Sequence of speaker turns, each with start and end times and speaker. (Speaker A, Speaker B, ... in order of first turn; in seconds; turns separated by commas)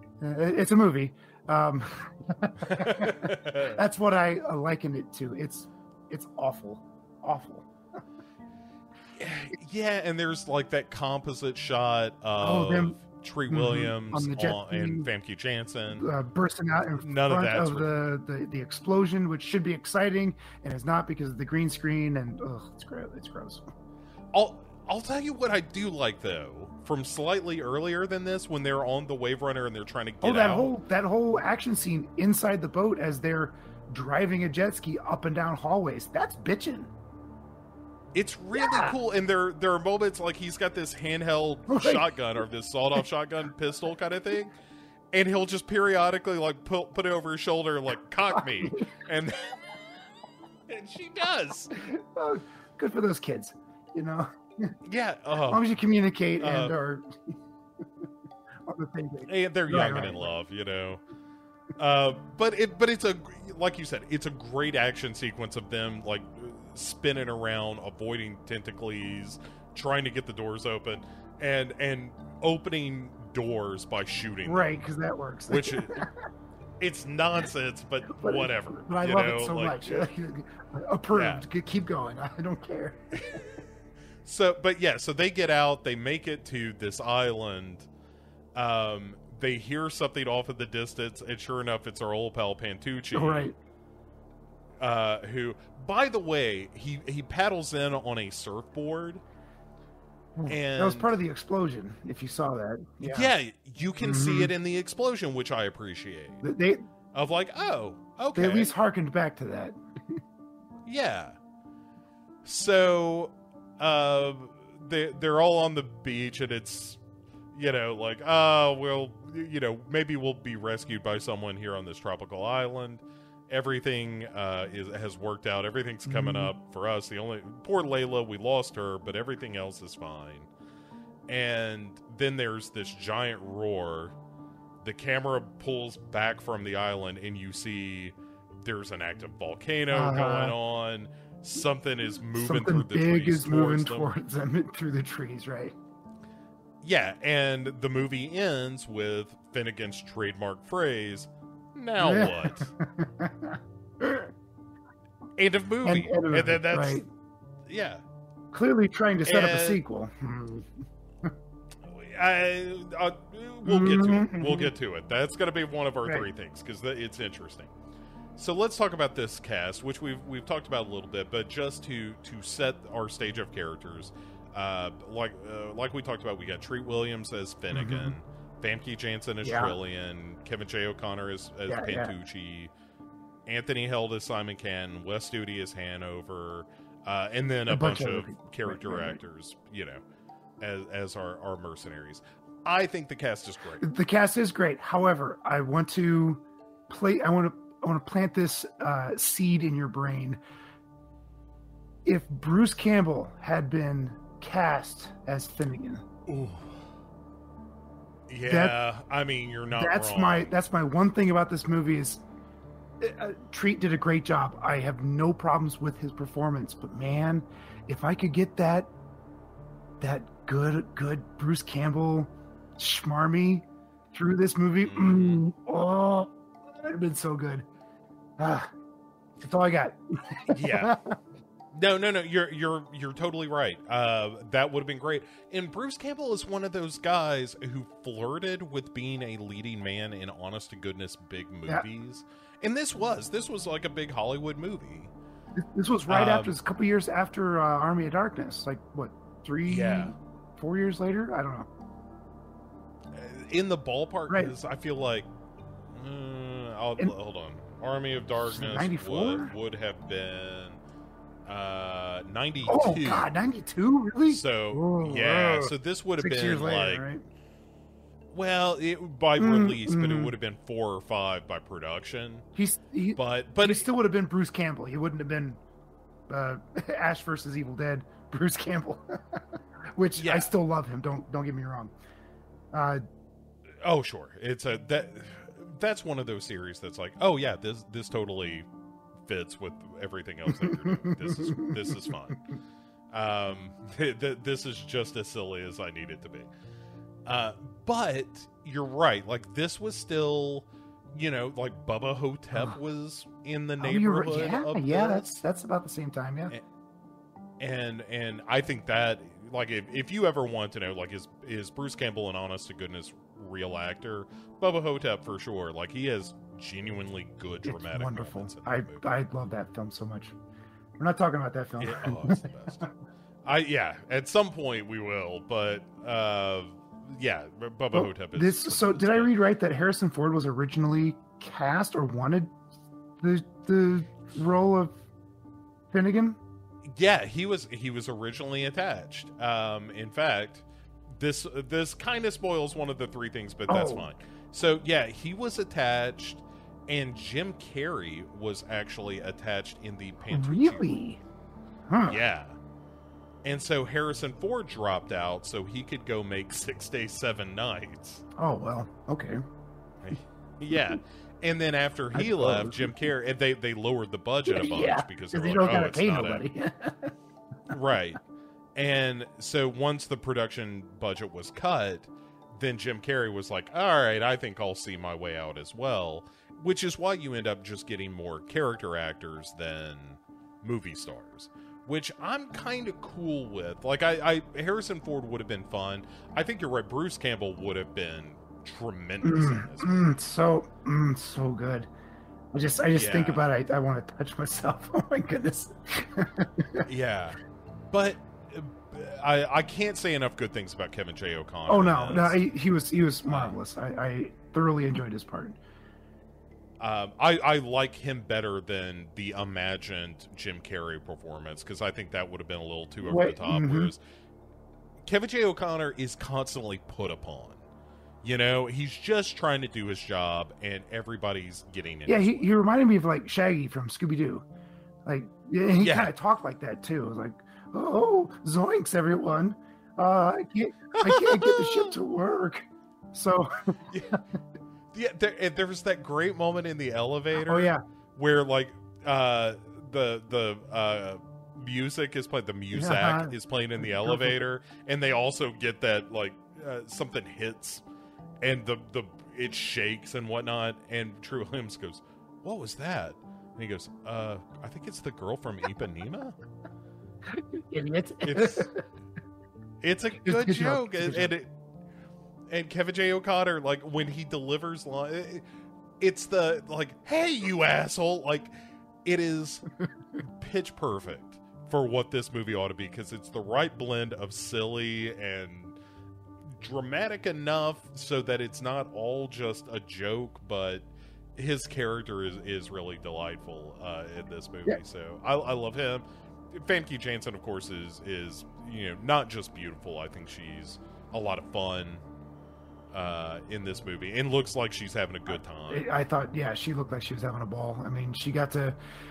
Speaker A: 0.2-7.7, Speaker B: 2.6-3.8, Speaker B: 9.2-16.1, Speaker A: 12.4-13.0, Speaker A: 13.5-15.1, Speaker A: 16.0-23.6, Speaker B: 17.0-17.9, Speaker B: 24.3-30.7, Speaker A: 30.2-36.9, Speaker B: 38.1-44.5, Speaker A: 38.5-39.0, Speaker A: 41.7-42.1, Speaker B: 45.1-49.6, Speaker A: 48.3-48.9, Speaker B: 50.7-51.9, Speaker A: 51.7-54.7, Speaker B: 54.9-55.7, Speaker A: 55.5-57.4, Speaker B: 56.4-56.8, Speaker A: 58.6-60.3, Speaker B: 59.2-61.0, Speaker B: 61.8-74.8, Speaker A: 74.5-76.2, Speaker B: 75.5-76.1, Speaker B: 76.8-80.1, Speaker A: 78.1-83.0, Speaker B: 81.1-81.5, Speaker B: 83.2-83.6, Speaker B: 84.2-87.9, Speaker B: 88.5-93.5, Speaker A: 93.1-93.6, Speaker B: 94.8-99.2, Speaker A: 100.3-103.3, Speaker B: 100.5-101.2, Speaker B: 103.0-106.4, Speaker A: 104.0-104.5, Speaker A: 106.4-106.9, Speaker B: 107.1-108.7, Speaker A: 108.3-110.2, Speaker B: 110.9-111.4, Speaker B: 112.5-117.0, Speaker B: 117.5-130.5, Speaker A: 126.0-126.5, Speaker B: 131.3-134.2, Speaker B: 134.8-144.1, Speaker A: 139.9-140.6, Speaker A: 142.3-145.8, Speaker B: 146.8-152.7, Speaker A: 152.0-154.3, Speaker B: 155.4-157.1, Speaker A: 155.8-157.1, Speaker B: 157.7-158.0, Speaker A: 158.5-161.3, Speaker B: 159.2-159.8, Speaker B: 161.9-167.7, Speaker A: 163.7-164.7, Speaker B: 168.4-182.7, Speaker A: 177.7-178.2, Speaker A: 179.4-179.8, Speaker A: 181.7-182.1, Speaker B: 183.5-190.0, Speaker A: 187.7-189.2, Speaker B: 190.6-193.9, Speaker A: 193.8-200.4, Speaker A: 202.1-206.1, Speaker B: 206.3-206.8, Speaker B: 208.3-210.5, Speaker A: 208.5-208.8, Speaker A: 209.8-212.2, Speaker A: 213.0-218.9, Speaker A: 220.0-227.7, Speaker B: 224.8-225.4, Speaker A: 228.4-228.7, Speaker A: 229.4-231.2, Speaker B: 230.5-231.0, Speaker B: 231.7-245.1, Speaker A: 245.6-251.7, Speaker B: 246.1-246.5, Speaker B: 249.7-250.1, Speaker B: 253.1-255.3, Speaker B: 255.9-260.8, Speaker A: 258.5-259.5, Speaker B: 261.5-263.3, Speaker A: 262.7-267.2, Speaker B: 264.3-267.1, Speaker B: 268.3-272.5, Speaker A: 269.4-270.3, Speaker A: 272.6-275.6, Speaker B: 273.2-273.9, Speaker A: 276.3-281.9, Speaker B: 280.2-280.5, Speaker A: 282.7-283.0, Speaker B: 283.8-288.7, Speaker B: 289.3-292.4, Speaker A: 290.5-292.1, Speaker B: 293.1-296.5, Speaker B: 297.3-305.4, Speaker A: 303.8-306.5, Speaker B: 307.6-319.1, Speaker A: 317.6-320.3, Speaker A: 321.0-322.9, Speaker B: 321.8-322.9, Speaker B: 323.5-329.3, Speaker A: 327.9-332.5, Speaker A: 333.2-335.0, Speaker A: 335.9-336.4, Speaker B: 336.9-340.7, Speaker B: 341.2-351.0, Speaker A: 343.7-344.1, Speaker A: 350.3-351.2, Speaker A: 351.9-352.2, Speaker B: 352.0-352.6, Speaker B: 353.4-358.2, Speaker A: 358.4-359.4, Speaker B: 360.0-366.4, Speaker A: 362.1-362.9, Speaker A: 364.5-367.1, Speaker B: 367.7-368.2, Speaker B: 368.8-390.1, Speaker A: 389.2-391.9, Speaker A: 392.5-396.9, Speaker B: 393.0-393.4, Speaker B: 396.9-397.4, Speaker B: 397.9-402.4, Speaker A: 401.7-405.6, Speaker B: 403.3-403.6, Speaker B: 406.8-414.0, Speaker A: 413.1-413.9, Speaker B: 415.1-417.6, Speaker B: 418.2-422.5, Speaker A: 422.1-424.4, Speaker A: 425.1-434.2, Speaker B: 425.8-426.1, Speaker B: 430.9-432.0, Speaker B: 433.9-434.2, Speaker B: 434.9-447.8, Speaker A: 437.4-437.8, Speaker A: 442.7-444.4, Speaker B: 448.4-456.4, Speaker A: 457.3-458.8, Speaker B: 458.2-458.7, Speaker B: 459.8-461.5, Speaker A: 460.2-461.3, Speaker B: 462.5-465.4, Speaker B: 466.0-468.5, Speaker B: 469.1-469.7, Speaker B: 470.3-475.8, Speaker B: 476.6-492.0, Speaker B: 492.9-495.9, Speaker A: 495.7-498.8